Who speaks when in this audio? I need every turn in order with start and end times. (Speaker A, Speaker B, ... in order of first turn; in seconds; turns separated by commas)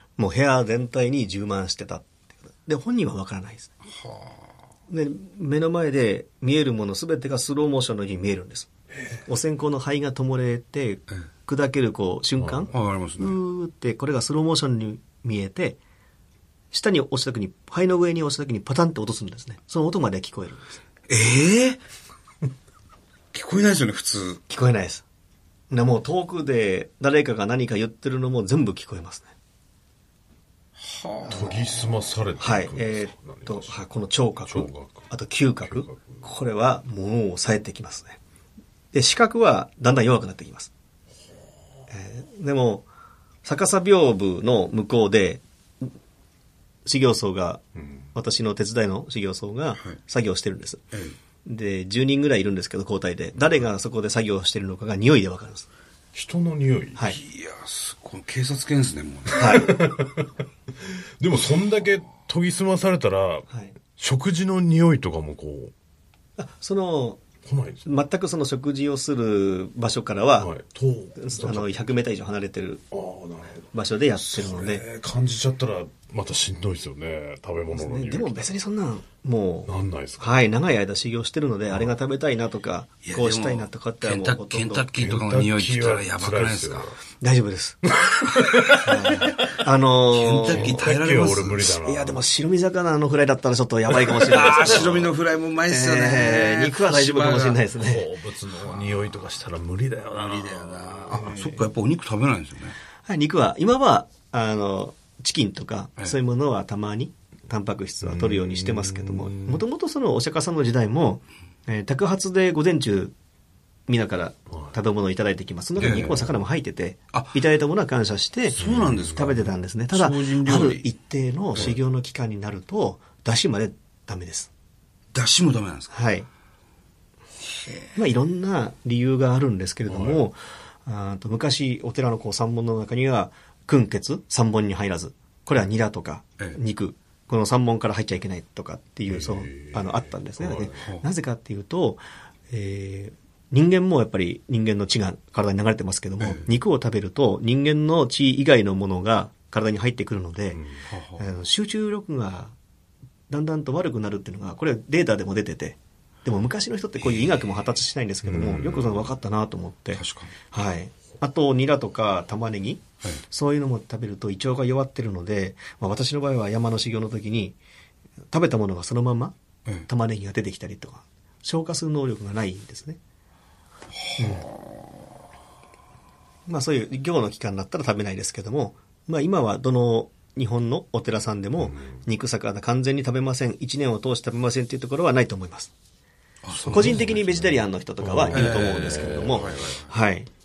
Speaker A: 0.2-3.8, Speaker B: 4.0-4.3, Speaker A: 4.9-8.7, Speaker A: 9.2-15.8, Speaker C: 12.4-12.7, Speaker B: 12.7-13.4, Speaker A: 16.7-20.8, Speaker B: 21.1-21.8, Speaker B: 23.3-24.4, Speaker A: 24.5-25.0, Speaker A: 25.7-29.3, Speaker B: 30.8-31.6, Speaker C: 31.3-33.8, Speaker A: 32.4-38.2, Speaker C: 34.5-35.1, Speaker C: 35.6-36.2, Speaker A: 38.9-40.7, Speaker A: 41.9-42.9, Speaker A: 43.4-45.9, Speaker A: 46.8-47.6, Speaker A: 48.1-50.8, Speaker A: 51.4-55.7, Speaker C: 56.1-57.0, Speaker B: 57.0-59.7, Speaker A: 59.4-59.7, Speaker C: 59.4-65.7, Speaker A: 63.5-63.7, Speaker A: 66.4-67.2, Speaker C: 67.4-67.8, Speaker A: 67.8-70.5, Speaker C: 70.4-71.7, Speaker A: 71.2-72.8, Speaker C: 72.9-73.6, Speaker A: 73.7-74.8, Speaker C: 74.2-78.5, Speaker A: 77.7-84.9, Speaker C: 79.7-80.4, Speaker B: 83.0-86.9, Speaker C: 85.0-86.9, Speaker A: 87.2-87.8, Speaker C: 88.0-89.2, Speaker A: 88.7-90.8, Speaker B: 90.1-91.6, Speaker C: 90.5-92.2, Speaker A: 91.5-95.1, Speaker B: 94.2-97.6, Speaker A: 95.7-98.1, Speaker C: 97.8-101.3, Speaker B: 98.6-98.9, Speaker B: 100.2-102.8, Speaker A: 103.1-113.1, Speaker C: 108.0-109.6, Speaker A: 113.9-118.6, Speaker B: 115.8-116.2, Speaker C: 115.8-116.3, Speaker B: 118.5-119.4, Speaker C: 118.5-119.4, Speaker A: 119.1-124.5, Speaker B: 119.9-120.8, Speaker B: 125.1-125.9, Speaker A: 125.9-126.3, Speaker A: 128.0-150.6, Speaker C: 129.9-130.2, Speaker C: 139.1-140.8, Speaker B: 140.8-141.0, Speaker C: 150.6-150.8, Speaker B: 150.9-151.2, Speaker A: 151.2-152.5, Speaker A: 153.3-167.6, Speaker C: 158.2-159.1, Speaker B: 159.9-160.3, Speaker A: 168.3-169.3, Speaker A: 169.9-173.0, Speaker A: 174.2-174.4, Speaker B: 174.2-174.7, Speaker A: 176.5-185.7, Speaker B: 186.4-187.1, Speaker C: 186.5-189.6, Speaker A: 186.7-190.3, Speaker B: 188.3-189.9